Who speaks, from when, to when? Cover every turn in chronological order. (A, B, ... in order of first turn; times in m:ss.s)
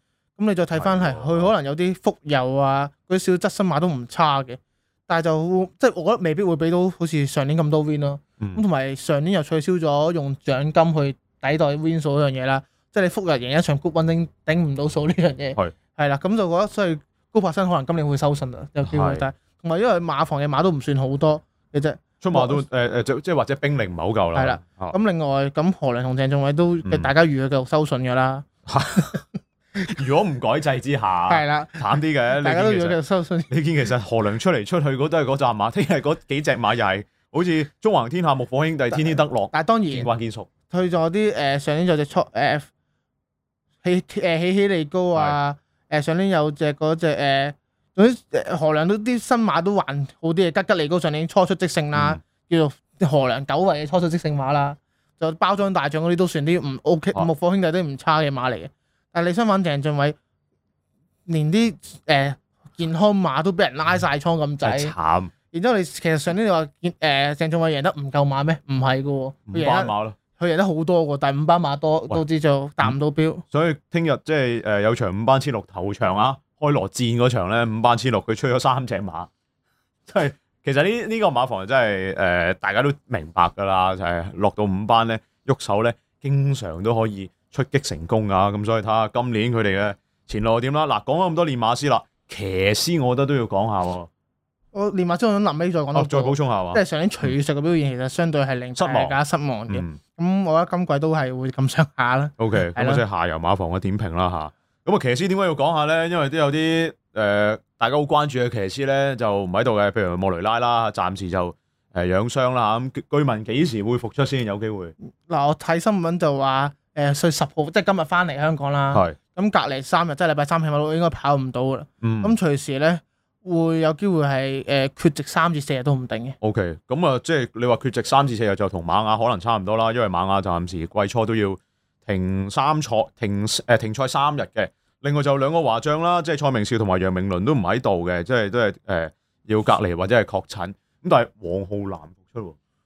0:00.4-0:22.6 A
0:00.8-0:01.5 B
0:18.8-0:19.2 B
0:22.2-0:25.0 B
0:24.3-0:28.4 A
0:26.8-0:27.1 B
0:28.7-0:29.2 B
0:29.8-0:33.0 B
0:31.3-0:33.5 A
0:33.5-0:40.5 B
0:38.9-0:40.1 A
0:40.7-0:42.7 A
0:43.8-1:00.2 A
0:51.9-0:52.2 B
1:01.3-1:04.9 A
1:04.6-1:05.3 B
1:05.5-1:13.4 A
1:09.5-1:10.2 B
1:13.5-1:19.3 B
1:20.1-1:34.1 B
1:34.7-1:43.0 A
1:35.9-1:37.3 B
1:38.8-1:40.0 B
1:42.4-1:54.9 B
1:55.2-2:06.4 A
1:58.9-1:59.2 B
2:02.0-2:02.4 B
2:06.4-2:22.6 B